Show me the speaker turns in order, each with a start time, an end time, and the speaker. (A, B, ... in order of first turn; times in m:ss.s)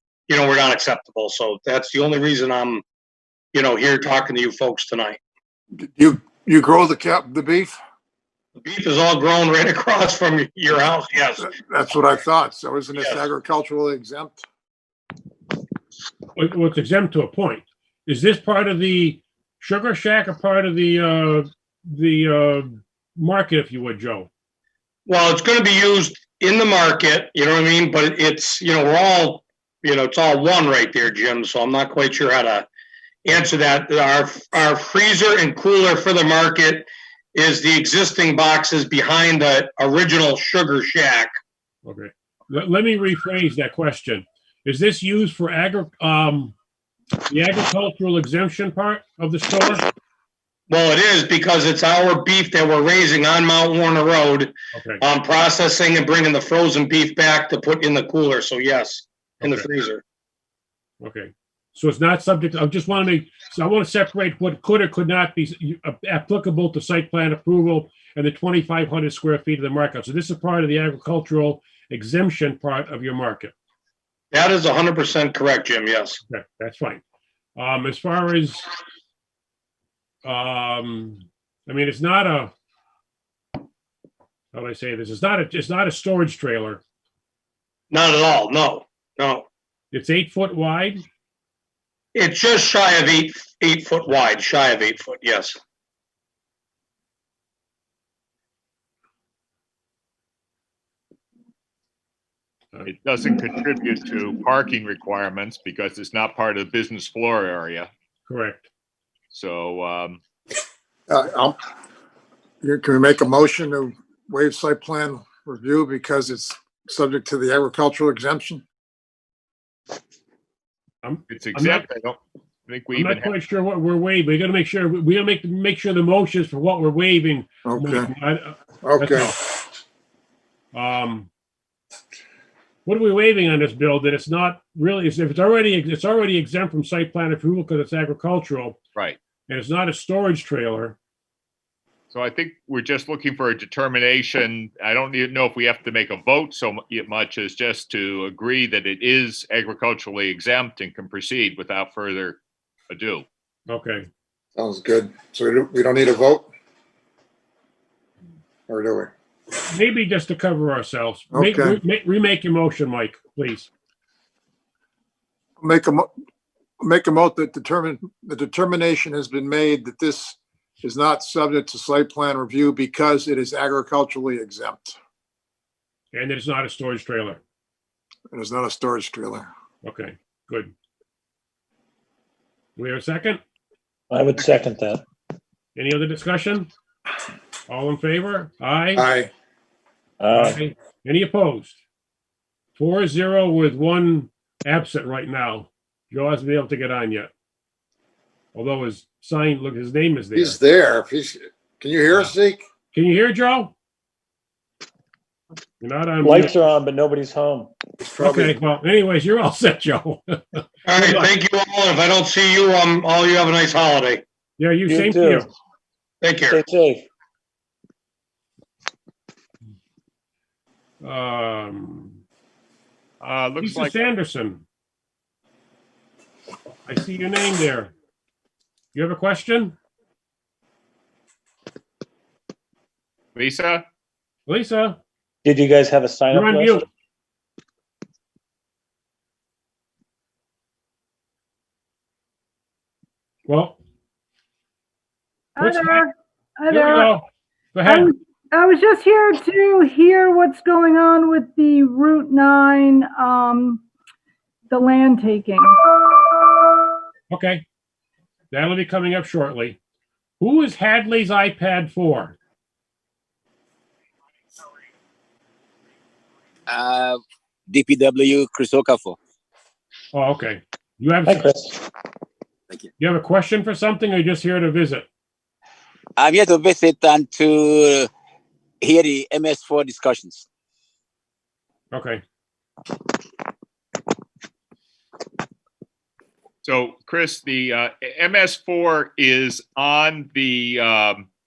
0:00.3-0:02.8 A
0:03.5-0:05.2 A
0:05.8-0:07.8 B
0:08.6-0:11.5 A
0:11.4-0:14.4 B
0:16.4-0:24.3 C
0:25.1-0:32.7 A
0:33.2-0:41.3 A
0:41.8-0:46.6 C
0:47.3-0:49.8 C
0:50.7-1:00.0 A
0:54.7-0:55.0 C
0:59.4-0:59.7 C
1:01.0-1:13.5 C
1:14.3-1:16.2 A
1:16.3-1:17.0 C
1:17.6-1:18.7 C
1:20.2-1:22.5 C
1:24.5-1:26.8 C
1:27.9-1:29.5 A
1:29.9-1:31.0 C
1:32.1-1:35.6 A
1:42.9-1:47.9 D
1:48.3-1:48.7 C
1:49.3-1:50.2 D
1:51.1-1:51.6 B
1:52.6-1:58.6 B
2:01.0-2:01.9 C
2:01.3-2:03.3 D
2:02.9-2:09.4 C
2:07.7-2:08.1 B
2:08.8-2:09.3 B
2:10.7-2:11.3 C
2:12.8-2:18.8 C
2:19.5-2:21.0 C
2:22.1-2:33.3 D
2:33.7-2:34.1 C
2:34.6-2:36.5 B
2:38.7-2:39.1 B
2:39.6-2:43.7 C
2:41.3-2:41.8 B
2:45.6-2:46.1 B
2:46.8-2:55.0 B
2:56.1-2:57.4 C
2:58.3-2:59.5 B
2:59.8-3:00.7 C
3:02.8-3:03.4 C
3:04.1-3:05.0 E
3:05.8-3:06.7 C
3:07.7-3:09.0 C
3:09.0-3:09.3 B
3:10.2-3:10.6 E
3:10.3-3:11.8 C
3:12.8-3:17.3 C
3:18.6-3:20.6 C
3:20.4-3:22.6 B
3:22.9-3:23.8 C
3:25.8-3:26.5 C
3:26.2-3:27.7 E
3:28.0-3:28.6 B
3:28.2-3:31.3 C
3:30.9-3:34.2 A
3:34.6-3:35.5 C
3:34.9-3:35.5 E
3:36.2-3:36.6 A
3:36.5-3:37.1 E
3:41.0-3:42.2 C
3:43.2-3:44.0 D
3:43.6-3:44.6 C
3:46.9-3:47.9 C
3:48.9-3:49.8 C
3:53.4-3:53.8 D
3:54.5-3:55.0 C
3:55.4-3:56.8 E
3:56.3-3:56.8 C
4:03.5-4:03.8 C
4:05.6-4:06.1 C
4:05.6-4:07.1 F
4:06.7-4:08.1 C
4:07.8-4:13.8 F
4:14.7-4:16.5 F
4:17.3-4:17.6 C
4:18.5-4:19.8 C
4:20.4-4:22.4 C
4:26.7-4:29.2 G
4:30.1-4:31.6 C
4:31.3-4:31.8 E
4:33.0-4:35.1 C
4:36.2-4:38.1 G
4:38.8-4:40.5 G
4:41.9-4:42.2 C
4:46.6-4:51.3 D